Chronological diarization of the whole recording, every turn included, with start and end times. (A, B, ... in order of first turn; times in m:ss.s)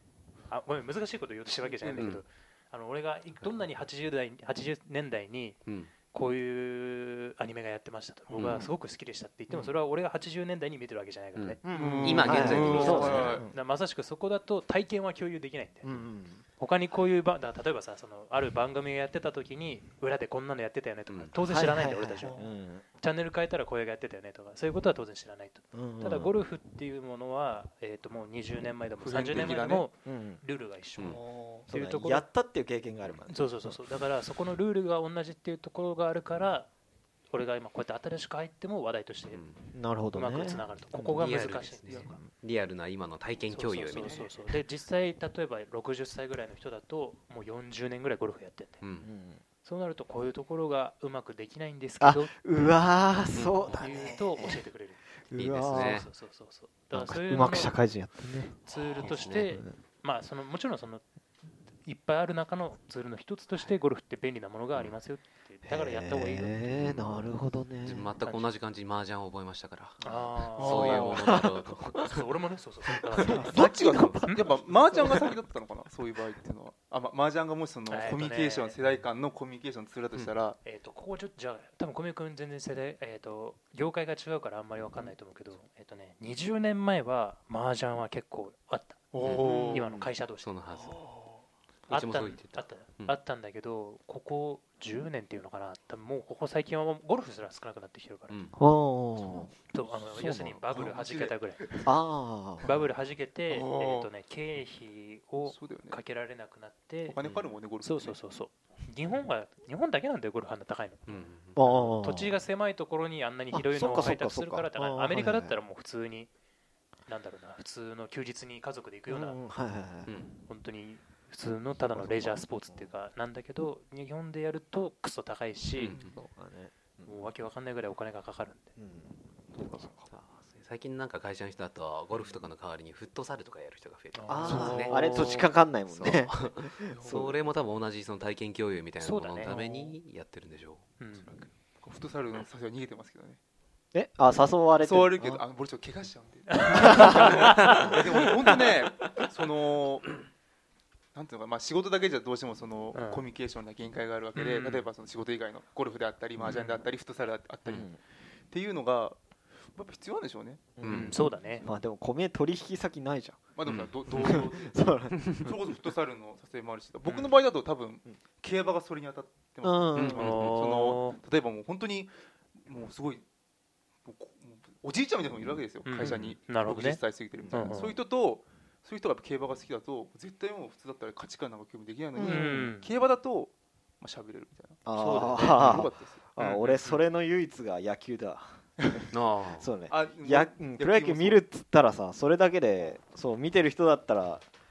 0:00.5-0:16.0 A
0:01.7-0:02.1 B
0:05.7-0:05.9 C
0:08.3-0:08.7 C
0:11.4-0:13.4 C
0:11.6-0:13.5 D
0:11.7-0:13.5 B
0:15.8-0:16.4 D
0:16.6-0:32.3 A
0:21.1-0:21.3 C
0:21.4-0:22.8 D
0:22.2-0:22.5 B
0:25.7-0:26.3 D
0:29.0-0:29.9 B
0:30.0-0:30.4 D
0:31.0-0:31.2 C
0:31.3-0:33.8 D
0:33.3-0:36.7 A
0:37.3-0:39.4 A
0:39.3-0:39.6 C
0:39.7-0:42.3 D
0:40.1-0:42.2 A
0:41.2-0:44.3 C
0:43.5-0:48.8 A
0:48.8-0:49.1 C
0:49.0-0:49.4 D
0:49.6-0:52.4 A
0:52.0-0:54.7 D
0:53.3-0:53.7 C
0:53.7-0:55.0 A
0:55.3-0:56.0 D
0:55.4-0:56.1 C
0:55.7-0:57.8 A
0:56.9-0:59.8 D
0:58.5-1:01.0 A
0:58.7-0:59.6 C
1:01.7-1:06.6 A
1:05.6-1:08.1 D
1:06.7-1:10.0 C
1:08.2-1:08.5 A
1:10.0-1:11.2 A
1:10.6-1:12.2 C
1:10.6-1:11.2 B
1:11.0-1:11.6 D
1:12.0-1:13.6 A
1:13.1-1:14.3 C
1:13.2-1:15.3 D
1:13.5-1:20.6 B
1:17.9-1:18.8 A
1:20.6-1:31.0 A
1:29.1-1:30.0 B
1:29.2-1:31.0 C
1:29.3-1:30.1 D
1:31.0-1:31.4 B
1:31.9-1:33.2 C
1:31.9-1:38.4 A
1:38.3-1:38.6 C
1:38.6-1:39.5 D
1:39.2-1:41.9 B
1:39.7-1:41.9 A
1:40.2-1:40.5 D
1:41.8-1:42.7 D
1:42.6-1:47.2 A
1:43.5-1:44.1 B
1:45.4-1:46.0 B
1:47.1-1:48.2 B
1:47.2-1:47.6 C
1:47.8-1:56.3 A
1:51.1-1:51.6 C
1:51.6-1:52.4 D
1:53.5-1:55.6 D
1:57.1-1:59.4 A
1:59.1-2:00.1 D
2:00.1-2:00.4 C
2:00.5-2:06.0 A
2:01.8-2:02.9 D
2:05.8-2:06.1 C
2:05.9-2:06.2 B
2:06.2-2:07.3 D
2:07.0-2:08.7 A
2:08.8-2:10.1 D
2:10.1-2:15.4 C
2:14.1-2:15.5 A
2:14.3-2:17.4 D
2:14.5-2:15.4 B
2:15.9-2:21.5 C
2:16.9-2:17.2 B
2:19.0-2:20.0 A
2:21.0-2:21.3 A
2:21.8-2:23.4 B
2:23.9-2:25.4 D
2:24.8-2:30.2 B
2:26.5-2:28.1 A
2:26.7-2:27.4 D
2:27.7-2:28.3 C
2:31.2-2:37.9 B
2:32.9-2:33.3 A
2:34.4-2:34.9 A
2:36.4-2:36.7 D
2:37.7-2:38.0 D
2:38.5-2:39.2 B
2:39.8-2:40.7 B
2:40.8-2:43.4 D
2:40.8-2:41.2 C
2:40.9-2:41.7 A
2:43.6-2:53.2 B
2:43.6-2:43.9 C
2:44.1-2:45.6 D
2:45.2-2:45.5 C
2:49.6-2:50.2 D
2:50.0-2:50.6 C
2:50.1-2:51.2 A
2:54.0-3:07.0 B
2:55.8-2:58.0 A
2:57.4-2:57.8 D
3:02.2-3:02.7 D
3:02.2-3:02.9 A
3:04.9-3:08.9 D
3:04.9-3:05.8 A
3:09.1-3:09.7 C
3:09.6-3:14.4 D
3:09.9-3:11.4 B